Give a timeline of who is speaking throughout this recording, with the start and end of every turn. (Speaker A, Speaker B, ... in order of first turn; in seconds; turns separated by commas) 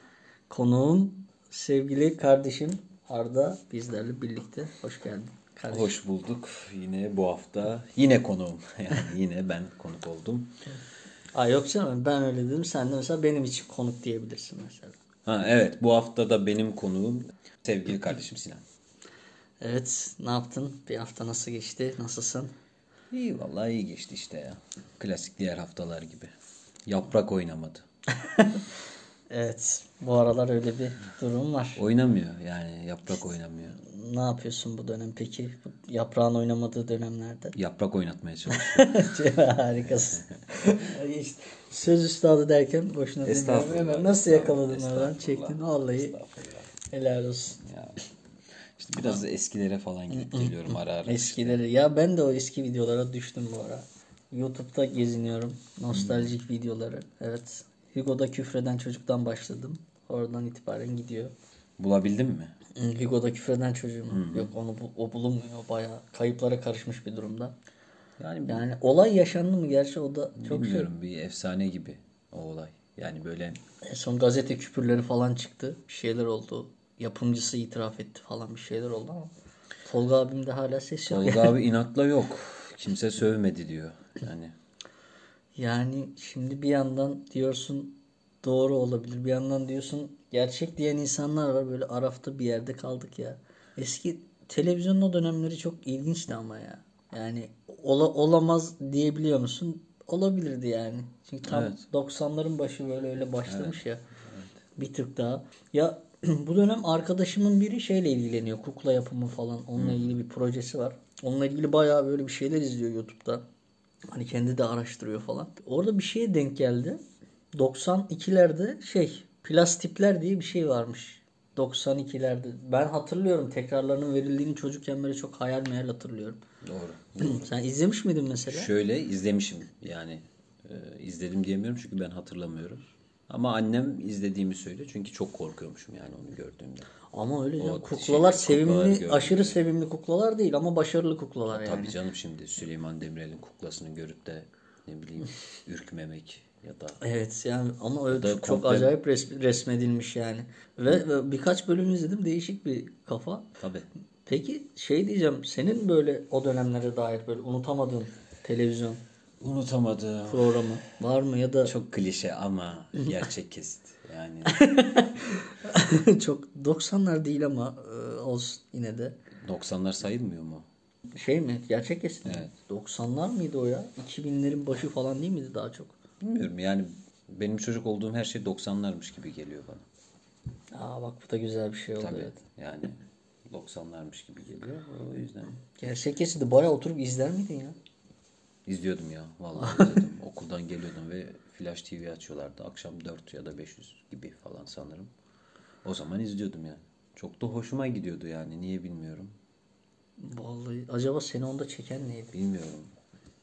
Speaker A: 0.5-6.0, Speaker B: 5.7-10.5, Speaker A: 11.3-15.0, Speaker B: 15.2-18.6, Speaker A: 19.6-22.5, Speaker B: 23.1-26.3, Speaker B: 26.9-27.9, Speaker A: 28.2-28.7, Speaker A: 29.3-31.8, Speaker B: 31.8-33.8, Speaker A: 33.8-37.5, Speaker B: 37.5-39.1, Speaker A: 38.5-46.2, Speaker B: 39.8-40.2, Speaker B: 43.2-46.7, Speaker A: 46.9-47.6, Speaker B: 47.6-48.0, Speaker B: 48.8-51.6, Speaker A: 50.1-61.3, Speaker B: 55.9-56.3, Speaker B: 61.8-62.5, Speaker A: 62.8-67.5, Speaker B: 64.1-64.5, Speaker B: 68.2-68.7, Speaker A: 68.5-70.9, Speaker B: 70.4-73.6, Speaker A: 73.8-79.3, Speaker A: 79.9-81.5, Speaker B: 81.1-84.5, Speaker A: 85.6-104.0, Speaker B: 101.5-101.8, Speaker B: 103.5-104.5, Speaker A: 104.8-113.4, Speaker B: 109.8-110.1, Speaker A: 114.1-117.0, Speaker A: 117.5-126.4, Speaker B: 126.6-127.5, Speaker A: 127.2-128.7, Speaker B: 128.5-136.9, Speaker A: 137.1-142.0, Speaker B: 137.6-139.6, Speaker B: 141.5-147.0, Speaker A: 147.0-153.5, Speaker B: 148.1-148.9, Speaker B: 153.6-153.9, Speaker A: 154.3-159.0, Speaker B: 159.4-160.7, Speaker A: 160.3-161.7, Speaker B: 161.6-164.6, Speaker A: 164.5-169.2, Speaker B: 169.4-170.7, Speaker A: 171.1-175.9, Speaker B: 172.2-172.5, Speaker B: 176.2-179.9, Speaker A: 180.7-182.4, Speaker B: 182.0-185.6, Speaker A: 185.8-187.8, Speaker B: 188.7-195.1, Speaker A: 189.6-189.9, Speaker B: 195.8-199.3, Speaker A: 200.2-202.3, Speaker B: 202.3-202.9